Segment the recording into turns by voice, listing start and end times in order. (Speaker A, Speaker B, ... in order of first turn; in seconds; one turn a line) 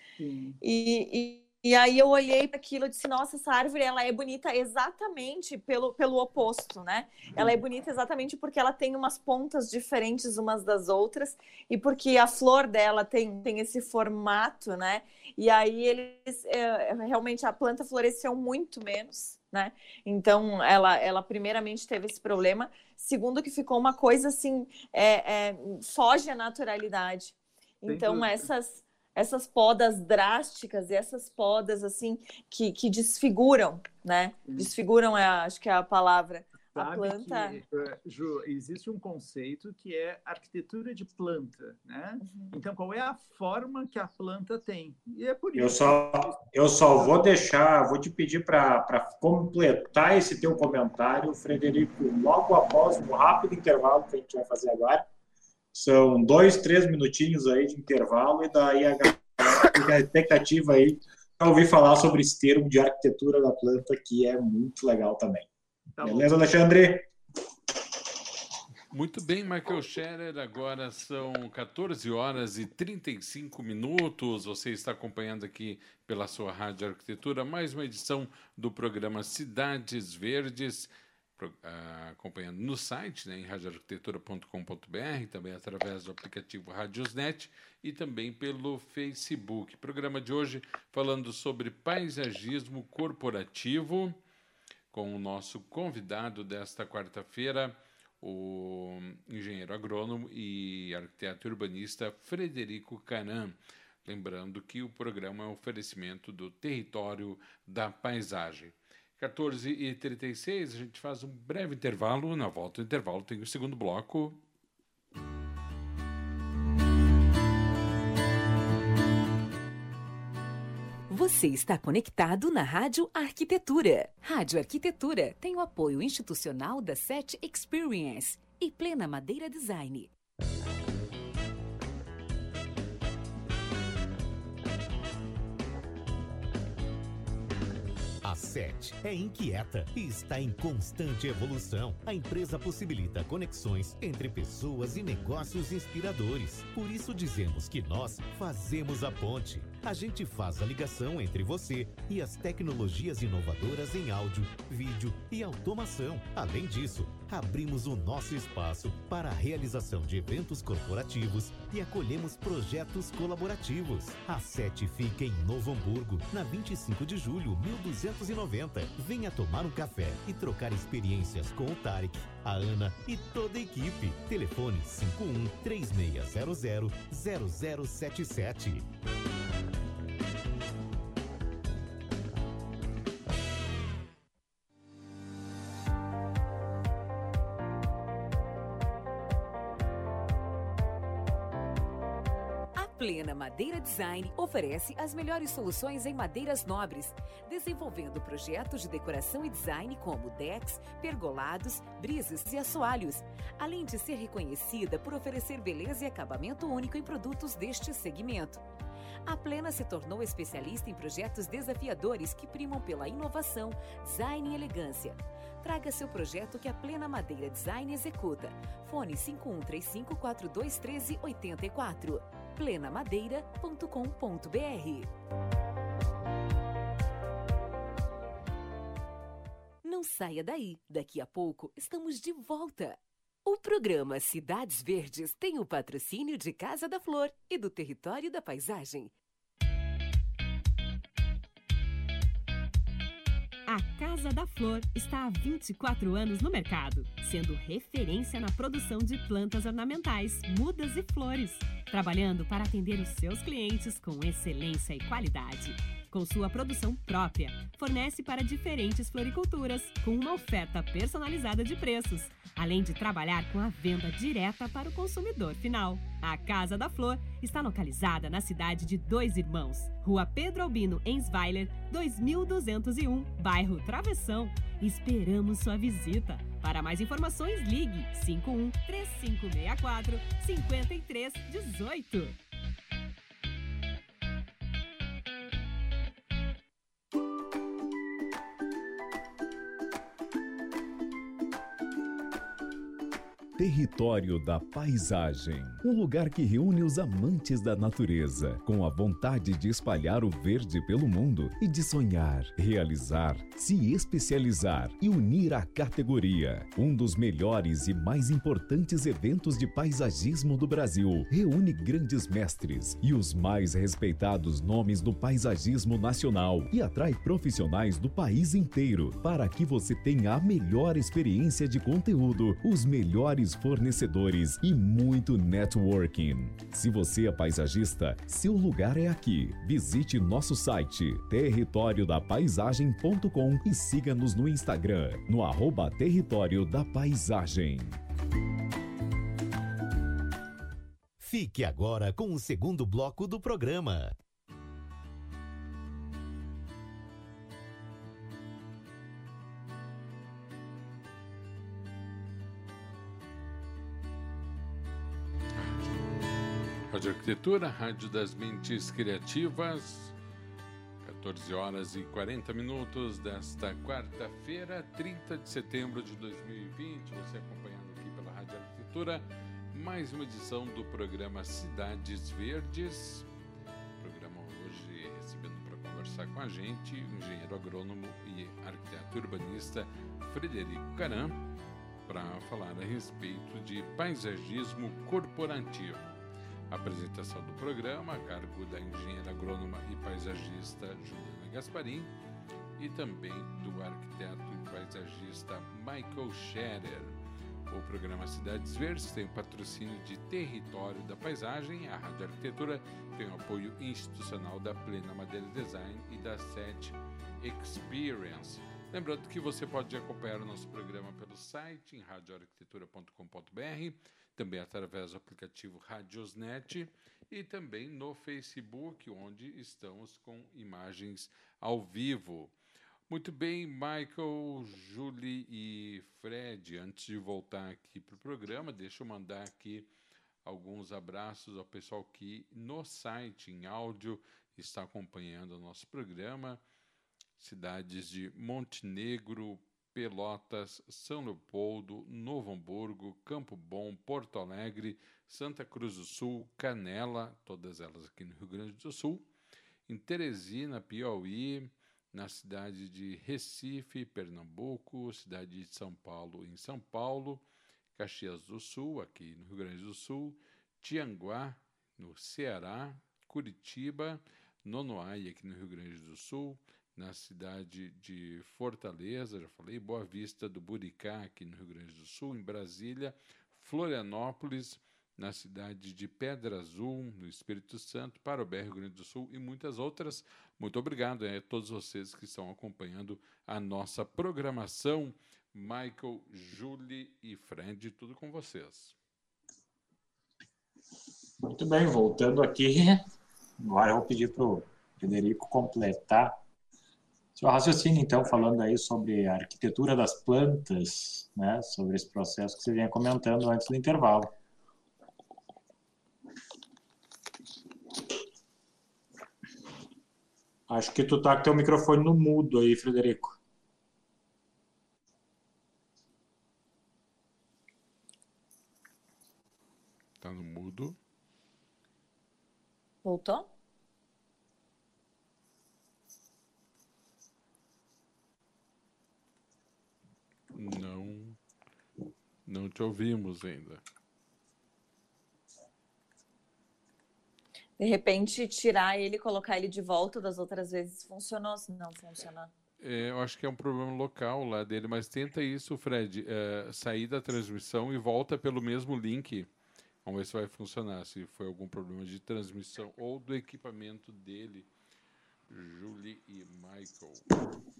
Speaker A: 0.2-0.6
Speaker B: 0.6-37.6
Speaker A: 27.9-28.5
Speaker A: 34.4-34.7
Speaker A: 36.7-47.2
Speaker B: 42.2-42.5
Speaker C: 45.6-55.0
Speaker C: 55.7-65.5
Speaker A: 66.0-66.4
Speaker C: 66.0-67.1
Speaker D: 68.9-94.2
Speaker D: 94.9-114.4
Speaker E: 121.1-130.1
Speaker F: 138.2-178.9
Speaker E: 192.8-208.6
Speaker E: 209.2-225.1
Speaker E: 229.8-239.1
Speaker G: 243.7-282.4
Speaker H: 293.6-338.0
Speaker F: 341.2-344.1
Speaker D: 356.9-360.1
Speaker D: 361.0-373.3
Speaker D: 374.0-381.4
Speaker D: 382.1-386.0
Speaker D: 386.7-392.1
Speaker D: 392.8-397.1
Speaker D: 397.7-422.5
Speaker D: 423.1-429.9
Speaker D: 430.4-436.6
Speaker D: 437.4-449.2
Speaker D: 449.9-457.4
Speaker D: 457.9-488.9
Speaker C: 491.4-493.0
Speaker C: 493.6-496.4
Speaker C: 497.4-504.3
Speaker C: 510.7-513.4
Speaker D: 520.2-521.0
Speaker B: 523.0-523.5
Speaker D: 530.5-531.4
Speaker D: 532.5-533.8
Speaker B: 537.8-542.5
Speaker D: 542.8-549.5
Speaker D: 550.0-554.7
Speaker D: 555.5-557.2